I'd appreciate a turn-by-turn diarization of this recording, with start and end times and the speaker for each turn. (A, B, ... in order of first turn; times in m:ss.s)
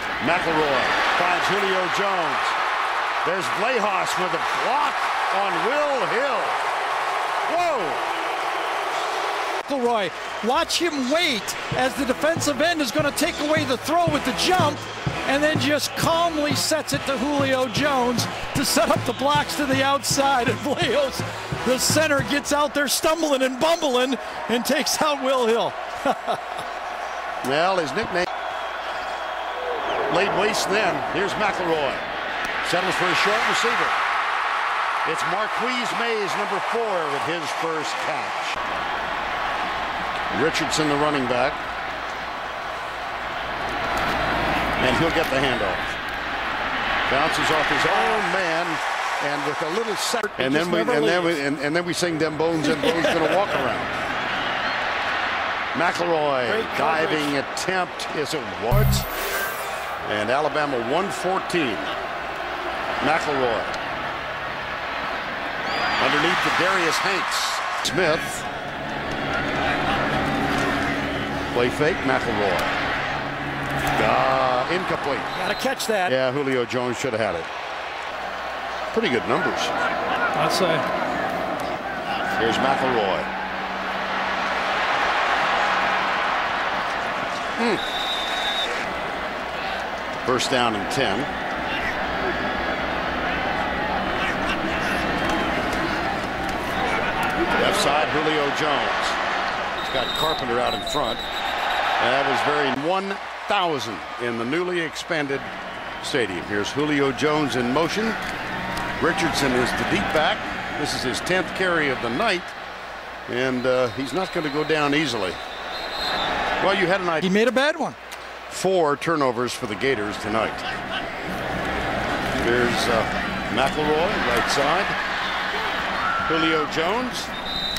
0:00.2-0:02.6 A
0:03.2-0:06.6 A
0:07.5-0:08.0 A
0:09.6-0:26.4 B
0:27.4-0:28.3 A
0:30.1-0:32.0 A
0:32.6-0:34.0 A
0:35.0-0:38.6 A
0:40.3-0:41.6 A
0:44.8-0:45.9 A
0:47.1-0:54.0 A
0:47.9-0:48.3 B
0:50.1-0:51.4 B
0:55.7-0:59.1 A
0:56.5-0:57.3 B
1:00.0-1:01.9 A
1:03.0-1:03.8 A
1:06.0-1:08.5 A
1:11.5-1:12.7 A
1:13.9-1:15.3 A
1:15.3-1:16.2 B
1:16.1-1:17.5 A
1:18.9-1:19.7 A
1:20.4-1:20.9 B
1:22.4-1:23.3 A
1:27.6-1:27.8 A
1:30.2-1:31.3 A
1:37.6-1:39.2 A
1:39.8-1:41.2 A
1:42.0-1:45.5 A
1:46.0-1:48.2 A
1:49.0-1:52.5 A
1:53.3-1:55.4 A
1:56.6-1:57.3 A
1:57.2-1:58.0 B
1:58.5-2:00.7 A
2:02.4-2:05.0 A
2:06.3-2:07.3 A